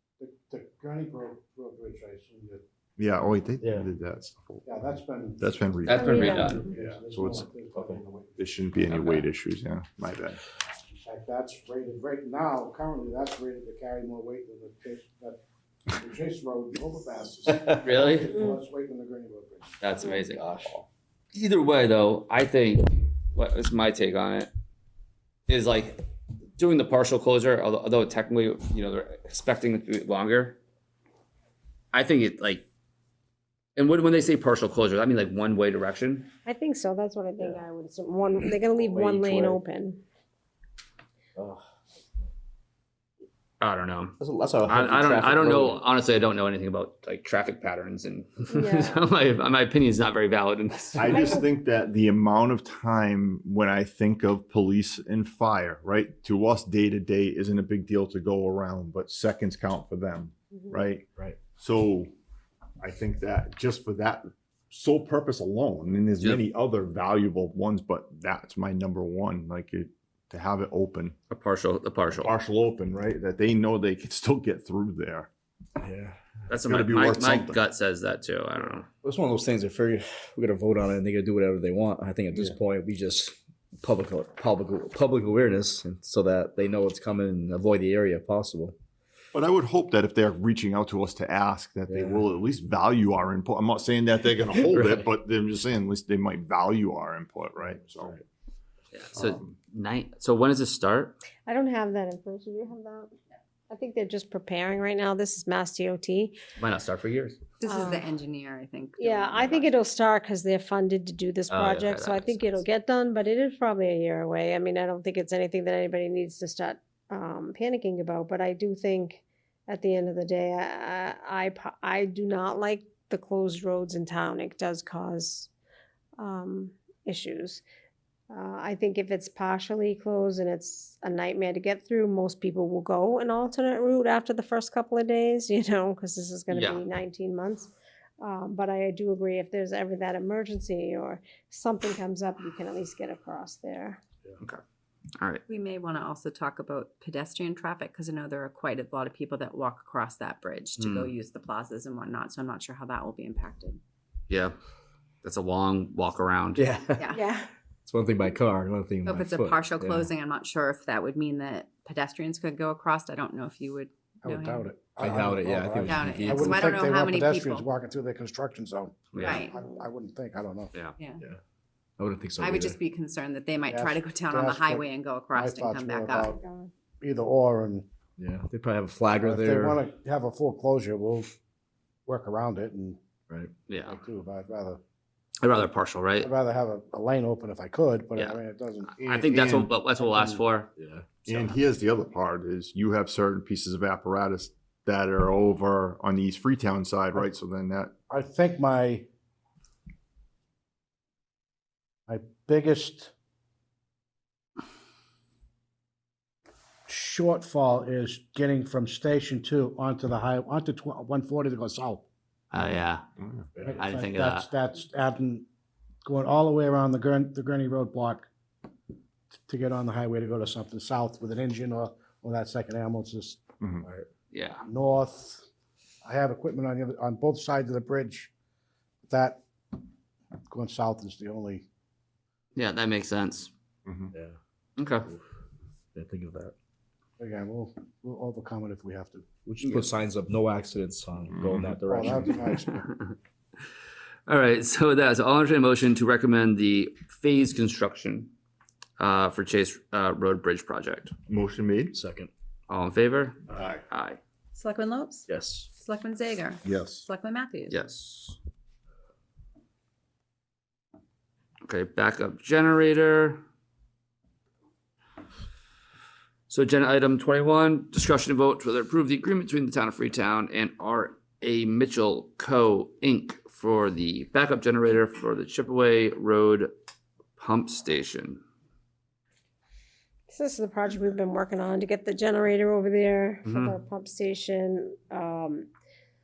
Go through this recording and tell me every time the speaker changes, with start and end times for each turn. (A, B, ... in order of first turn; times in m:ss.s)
0:00.2-0:02.6 A
0:03.0-0:04.7 B
0:03.6-0:03.9 C
0:04.6-0:05.4 A
0:05.4-0:07.5 B
0:05.8-0:06.6 D
0:05.9-0:06.7 E
0:06.0-0:08.4 A
0:08.4-0:10.4 B
0:08.9-0:09.2 D
0:10.9-0:15.4 A
0:15.9-0:19.8 A
0:17.5-0:18.3 D
0:18.3-0:18.6 E
0:19.8-0:20.8 D
0:20.1-0:20.8 C
0:21.3-0:24.5 D
0:25.5-0:26.0 D
0:26.6-0:30.6 D
0:31.9-0:32.7 D
0:33.8-0:36.3 D
0:36.4-0:40.0 E
0:38.8-0:39.6 C
0:41.4-0:41.7 C
0:43.6-0:51.4 D
0:44.2-0:45.8 C
0:48.5-0:49.0 E
0:51.0-1:01.0 B
0:51.1-0:51.5 E
1:01.6-1:02.1 B
1:02.8-1:11.2 B
1:06.2-1:06.4 D
1:11.3-1:12.3 D
1:12.2-1:15.3 B
1:15.8-1:16.2 C
1:16.5-1:18.9 D
1:16.6-1:17.6 B
1:19.0-1:28.8 C
1:29.3-1:38.2 B
1:31.9-1:32.2 C
1:34.7-1:35.0 C
1:38.9-1:41.2 D
1:39.1-1:39.6 B
1:41.5-1:43.1 E
1:43.7-1:46.4 E
1:46.6-1:47.4 D
1:47.6-1:49.8 F
1:47.6-1:48.1 E
1:49.0-2:05.5 E
1:51.5-1:52.6 D
2:06.2-2:07.6 E
2:08.3-2:24.0 E
2:16.5-2:16.8 D
2:25.5-2:33.8 F
2:30.8-2:31.1 D
2:34.3-2:34.6 D
2:35.2-2:36.6 D
2:36.6-2:37.1 C
2:37.1-2:37.5 E
2:37.9-2:40.1 C
2:39.0-2:44.7 F
2:44.2-2:50.7 A
2:45.0-2:46.8 C
2:45.8-2:47.6 F
2:49.1-2:49.4 D
2:49.2-2:49.5 F
2:51.0-2:51.2 F
2:52.0-2:52.8 C
2:52.4-2:56.3 F
2:53.7-2:56.4 A
2:56.2-2:56.7 E
2:57.0-2:57.9 A
2:58.2-2:59.8 C
2:59.2-3:01.3 A
3:02.1-3:03.0 A
3:03.7-3:04.0 D
3:03.9-3:04.8 A
3:05.4-3:06.3 D
3:06.2-3:08.9 A
3:09.0-3:09.7 B
3:09.0-3:10.7 D
3:10.0-3:10.4 A
3:10.8-3:11.1 C
3:11.2-3:17.9 B
3:18.1-3:19.1 A
3:22.1-3:23.1 A
3:26.9-3:32.1 A
3:32.5-3:33.0 D
3:33.2-3:33.5 B
3:33.6-3:35.5 A
3:33.8-3:34.5 D
3:36.0-3:38.2 A
3:39.5-3:43.4 A
3:43.6-3:43.9 B
3:44.3-3:44.6 D
3:44.7-3:45.5 A
3:46.0-3:48.3 A
3:49.1-3:49.4 A
3:50.5-3:51.6 A
3:52.6-3:53.5 D
3:53.9-3:54.1 B
3:54.8-3:55.1 D
3:55.9-3:56.5 C
3:57.2-3:59.3 A
3:59.5-4:02.3 C
4:01.3-4:01.8 B
4:01.9-4:02.9 A
4:04.3-4:08.3 D
4:09.0-4:11.1 D
4:11.3-4:12.0 B
4:11.9-4:12.3 C
4:12.7-4:14.2 D
4:13.5-4:13.8 B
4:14.5-4:17.8 F
4:15.3-4:15.7 C
4:16.6-4:17.1 B
4:17.7-4:18.4 D
4:21.6-4:23.4 D
4:26.5-4:36.7 D
4:37.4-4:38.4 D
4:40.3-4:45.7 E
4:43.4-4:43.8 D